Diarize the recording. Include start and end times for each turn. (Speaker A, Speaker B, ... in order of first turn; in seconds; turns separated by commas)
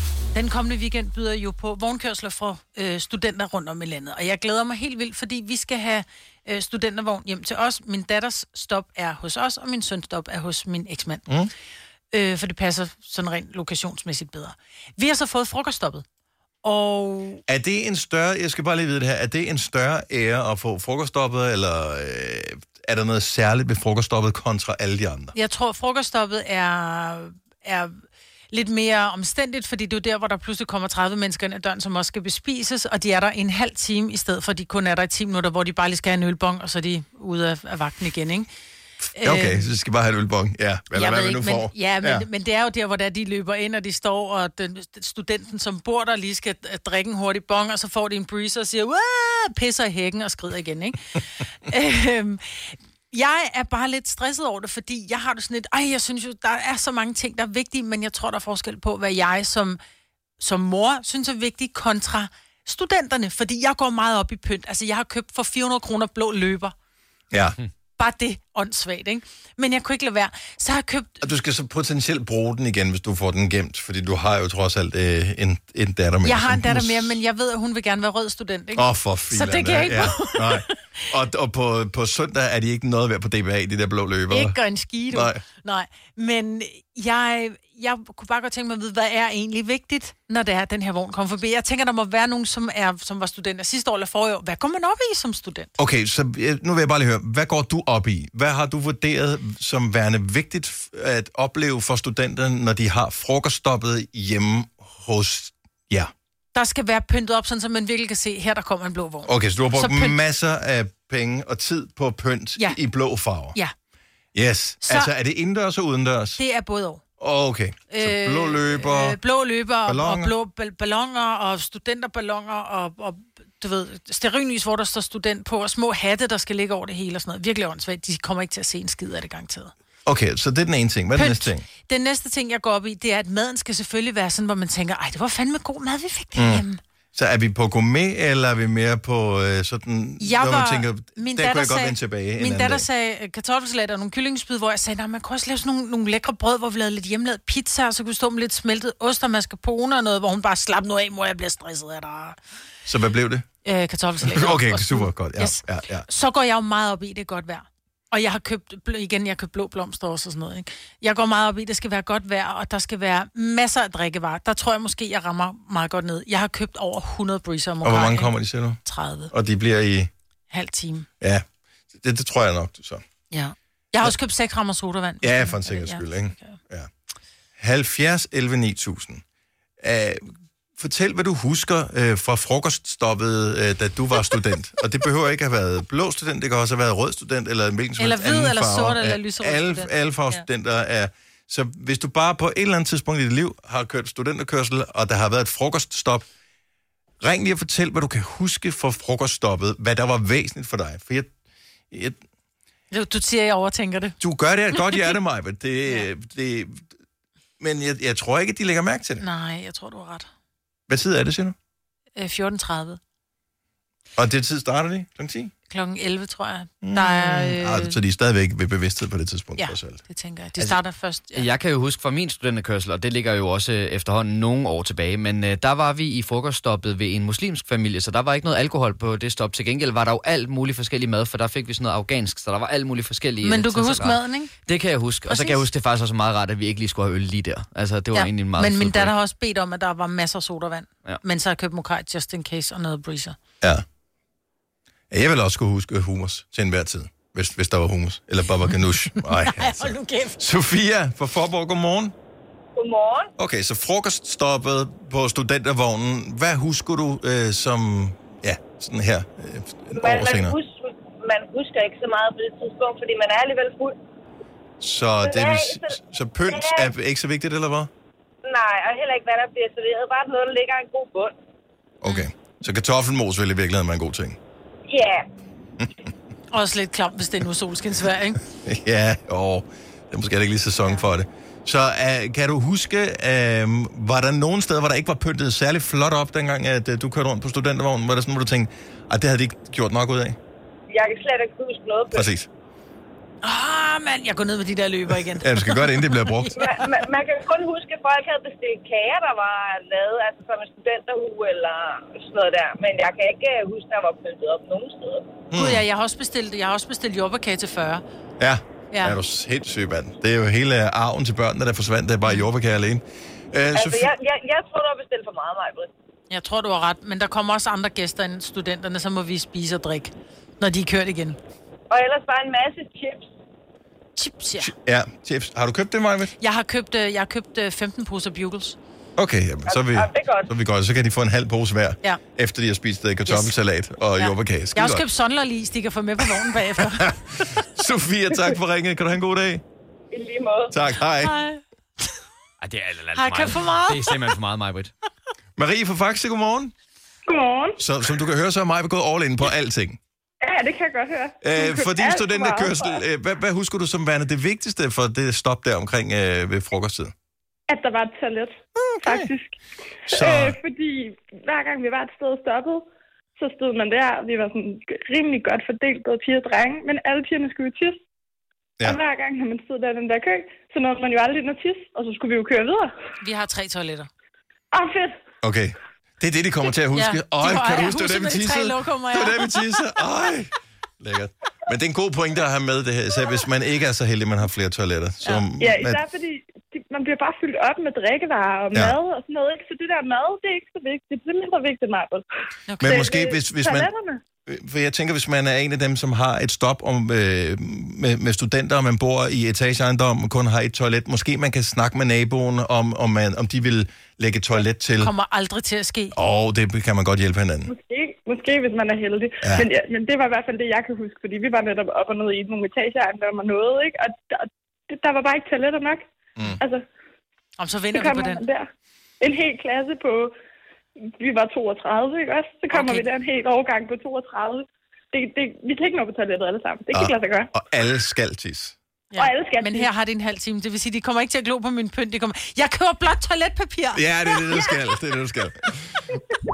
Speaker A: 0.3-11.3, Speaker A: 12.1-16.0, Speaker A: 16.6-17.4, Speaker B: 17.5-25.3, Speaker A: 25.3-28.0, Speaker A: 28.5-38.5, Speaker A: 39.1-39.7, Speaker B: 39.2-42.3, Speaker A: 40.9-59.8, Speaker A: 60.4-66.7, Speaker B: 67.3-67.6, Speaker A: 68.0-71.2, Speaker B: 71.2-77.2, Speaker A: 76.2-81.0, Speaker B: 78.7-84.6, Speaker A: 84.3-95.7, Speaker B: 85.1-85.4, Speaker B: 95.8-106.1, Speaker A: 106.5-110.2, Speaker B: 109.2-113.6, Speaker B: 114.3-116.4, Speaker A: 114.8-115.1, Speaker A: 116.4-117.0, Speaker B: 117.2-119.2, Speaker A: 117.9-129.7, Speaker B: 119.8-120.3, Speaker B: 130.1-131.7, Speaker A: 131.1-136.8, Speaker B: 136.3-142.8, Speaker A: 140.2-152.4, Speaker B: 152.8-153.4, Speaker A: 153.6-169.3, Speaker B: 154.2-156.1, Speaker B: 167.8-170.1, Speaker A: 170.5-171.1, Speaker B: 171.2-173.0, Speaker A: 173.3-176.6, Speaker B: 175.2-176.9, Speaker B: 177.6-179.2, Speaker B: 179.8-196.3, Speaker A: 188.0-190.4, Speaker B: 197.2-201.3, Speaker B: 201.9-202.2, Speaker A: 202.9-204.2, Speaker B: 204.2-206.9, Speaker B: 207.6-209.2, Speaker A: 209.2-210.3, Speaker B: 210.9-211.5, Speaker A: 212.2-213.0, Speaker B: 214.2-215.5, Speaker A: 215.7-218.0, Speaker B: 216.8-220.0, Speaker A: 219.6-221.5, Speaker C: 221.3-239.1, Speaker A: 233.4-234.5, Speaker A: 235.2-235.7, Speaker A: 238.1-243.3, Speaker B: 245.1-252.1, Speaker A: 249.0-250.4, Speaker D: 252.7-253.3, Speaker B: 253.4-260.6, Speaker D: 259.9-263.9, Speaker B: 264.8-267.9, Speaker D: 265.2-265.9, Speaker D: 266.5-266.9, Speaker D: 268.4-271.3, Speaker B: 272.0-274.4, Speaker D: 274.9-275.2, Speaker A: 276.5-278.4, Speaker B: 278.6-290.4, Speaker A: 280.8-281.1, Speaker D: 290.9-292.3, Speaker B: 292.1-292.5, Speaker A: 293.4-296.8, Speaker B: 295.4-296.7, Speaker D: 296.5-305.3, Speaker B: 305.5-305.8, Speaker A: 305.5-308.0, Speaker B: 308.4-314.1, Speaker A: 308.9-309.2, Speaker D: 313.7-315.9, Speaker A: 316.3-321.4, Speaker D: 321.9-323.3, Speaker A: 324.1-324.7, Speaker B: 324.6-326.3, Speaker A: 326.4-328.8, Speaker B: 329.2-335.0, Speaker D: 329.7-330.5, Speaker A: 333.2-333.5, Speaker A: 334.1-337.6, Speaker B: 336.3-339.6, Speaker D: 340.1-340.7, Speaker B: 340.7-341.4, Speaker A: 341.2-341.6, Speaker C: 342.6-344.9, Speaker A: 343.1-344.2, Speaker B: 345.6-346.7, Speaker E: 347.3-347.8, Speaker B: 347.8-350.0, Speaker E: 350.4-353.0, Speaker B: 351.4-357.1, Speaker E: 357.7-359.6, Speaker B: 358.8-359.3, Speaker B: 360.1-360.6, Speaker E: 360.1-368.0, Speaker E: 368.8-372.9, Speaker A: 373.2-374.1, Speaker E: 374.7-375.1, Speaker B: 375.4-386.0, Speaker A: 376.9-379.6, Speaker E: 385.6-392.2, Speaker A: 392.7-393.0, Speaker B: 392.8-393.9, Speaker E: 392.9-394.2, Speaker B: 394.4-405.1, Speaker A: 405.0-406.1, Speaker B: 406.1-407.7, Speaker E: 407.7-416.1, Speaker E: 416.6-416.8, Speaker A: 417.6-418.4, Speaker E: 417.9-418.7, Speaker E: 419.2-420.3, Speaker E: 421.2-427.5, Speaker A: 422.7-423.1, Speaker B: 426.9-428.8, Speaker A: 429.1-434.7, Speaker E: 429.2-429.9, Speaker B: 433.9-436.0